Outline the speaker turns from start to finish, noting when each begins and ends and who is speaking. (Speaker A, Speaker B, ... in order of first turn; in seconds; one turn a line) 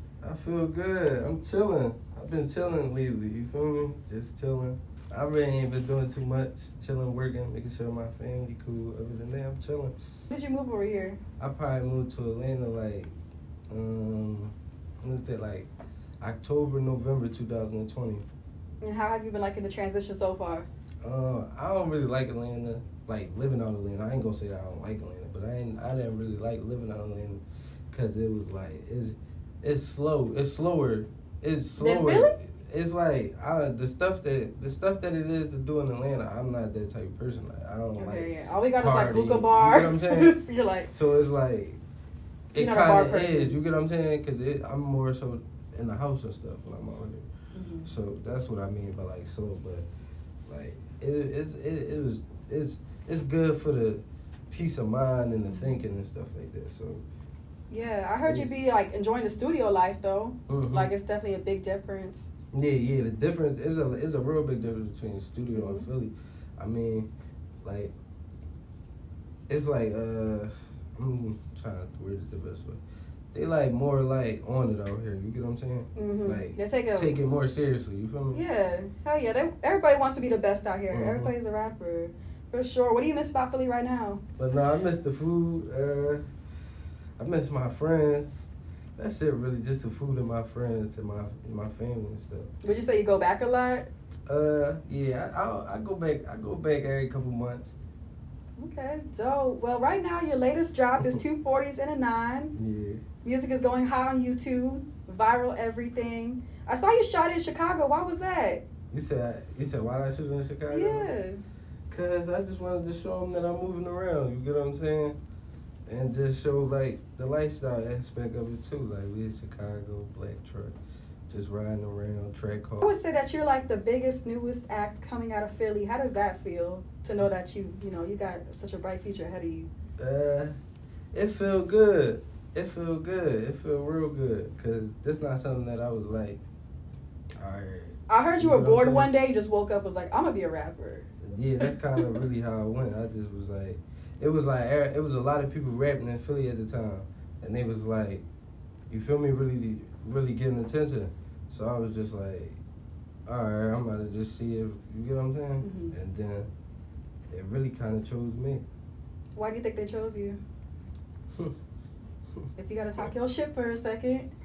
Speaker A: 0.2-9.9
Speaker B: 10.3-11.2
Speaker A: 11.4-13.1
Speaker A: 13.7-15.7
Speaker A: 16.2-18.2
Speaker B: 18.8-20.7
Speaker A: 21.0-40.4
Speaker B: 31.8-32.4
Speaker B: 38.0-40.9
Speaker A: 40.9-41.8
Speaker A: 42.5-47.3
Speaker B: 42.5-43.6
Speaker B: 47.5-47.9
Speaker A: 47.9-49.9
Speaker A: 50.5-57.0
Speaker B: 55.5-55.8
Speaker B: 57.7-62.3
Speaker A: 58.2-58.5
Speaker A: 60.5-60.9
Speaker A: 62.5-67.1
Speaker B: 65.5-65.9
Speaker A: 67.6-67.9
Speaker A: 69.5-72.8
Speaker A: 73.3-78.4
Speaker B: 76.0-77.2
Speaker B: 78.3-84.2
Speaker A: 80.9-81.3
Speaker A: 84.4-86.2
Speaker A: 87.2-92.5
Speaker B: 92.6-93.9
Speaker A: 94.3-97.7
Speaker B: 98.6-102.5
Speaker A: 102.6-103.0
Speaker B: 103.2-108.6
Speaker A: 108.9-111.1
Speaker B: 110.7-111.4
Speaker A: 111.9-115.2
Speaker A: 115.9-120.8
Speaker A: 121.3-122.9
Speaker B: 122.8-129.7
Speaker A: 130.0-130.5
Speaker A: 131.1-136.4
Speaker A: 137.4-139.1
Speaker B: 138.1-141.1
Speaker A: 141.2-148.2
Speaker B: 141.6-142.2
Speaker A: 148.9-152.6
Speaker A: 153.3-156.5
Speaker B: 155.6-155.9
Speaker A: 157.3-158.6
Speaker B: 159.4-160.4
Speaker B: 162.6-164.3